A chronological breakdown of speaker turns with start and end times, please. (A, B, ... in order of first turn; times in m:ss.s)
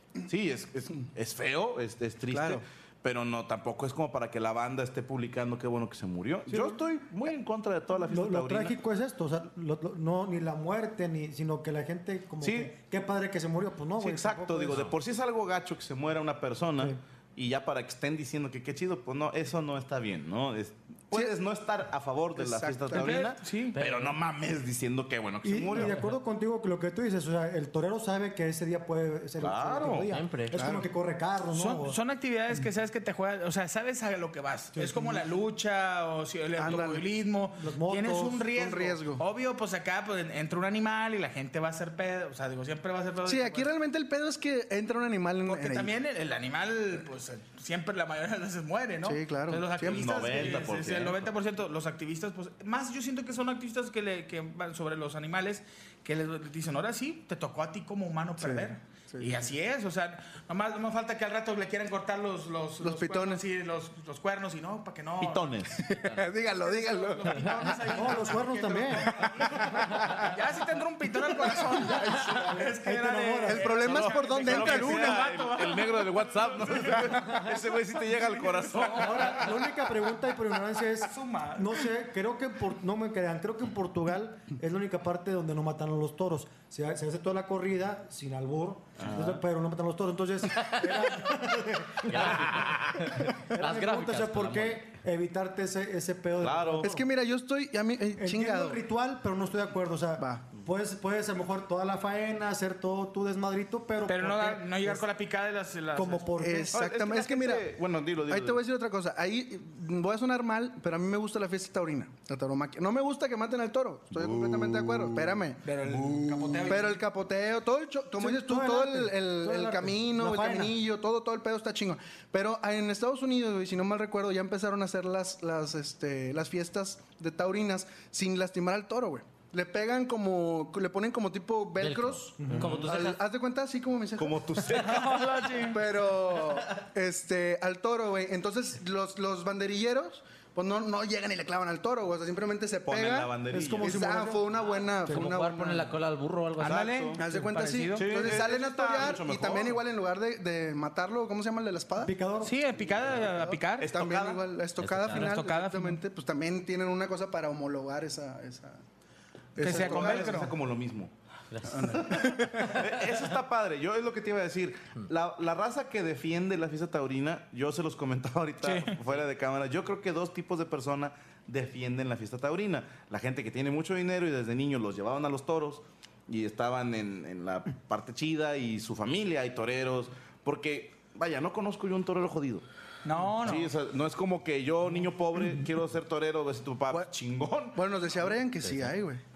0:00.3-0:08.8 A
0:02.3-0:02.6 B
0:06.5-0:06.8 B
0:08.1-0:14.9 C
0:12.4-0:12.7 A
0:14.0-0:26.0 A
0:22.4-0:23.3 B
0:22.9-0:23.8 D
0:23.8-0:24.1 E
0:25.4-0:32.0 C
0:29.4-0:30.1 A
0:30.1-0:30.6 E
0:30.5-0:30.9 B
0:31.5-0:43.7 D
0:34.7-0:35.2 C
0:36.6-0:37.0 B
0:37.5-0:38.5 C
0:38.6-0:39.2 B
0:43.2-0:45.9 B
0:45.4-1:05.7 D
0:49.0-0:50.6 B
0:49.8-0:51.3 A
0:58.4-0:59.5 B
1:02.8-1:03.4 B
1:05.2-1:05.8 A
1:05.9-1:07.5 B
1:06.0-1:06.2 E
1:06.6-1:17.4 D
1:07.9-1:09.2 C
1:09.1-1:10.3 B
1:11.3-1:12.7 B
1:12.8-1:13.7 C
1:13.4-1:15.3 B
1:13.7-1:19.4 A
1:18.2-1:19.6 D
1:18.9-1:37.0 C
1:21.0-1:21.8 D
1:29.0-1:29.4 A
1:32.1-1:34.9 E
1:36.4-1:36.9 A
1:36.8-1:38.8 B
1:38.2-1:45.1 C
1:40.2-1:40.4 B
1:44.0-1:46.4 D
1:45.9-1:46.7 C
1:46.4-1:47.7 B
1:46.7-1:48.6 A
1:48.2-2:14.5 B
1:54.1-1:55.4 A
1:55.6-1:57.0 D
1:58.2-2:00.8 C
2:11.8-2:13.2 E
2:12.4-2:12.7 C
2:12.6-2:13.0 A
2:14.2-2:15.6 A
2:14.7-2:15.8 D
2:15.7-2:25.9 B
2:22.9-2:24.2 A
2:23.5-2:25.2 C
2:25.1-2:26.9 E
2:26.6-2:28.4 D
2:26.6-2:27.2 A
2:27.2-2:32.1 B
2:27.9-2:29.8 A
2:32.0-2:32.6 C
2:32.4-2:34.0 D
2:33.1-2:38.8 B
2:33.8-2:34.4 A
2:34.8-2:35.3 E
2:35.1-2:36.0 D
2:39.6-2:40.5 B
2:39.6-2:40.6 D
2:39.6-2:41.1 A
2:41.5-2:42.0 E
2:41.7-2:42.8 B
2:41.8-3:02.6 A
2:48.6-2:49.0 D
3:03.0-3:03.7 D
3:03.4-3:08.2 A
3:07.7-3:09.2 B
3:08.6-3:08.9 E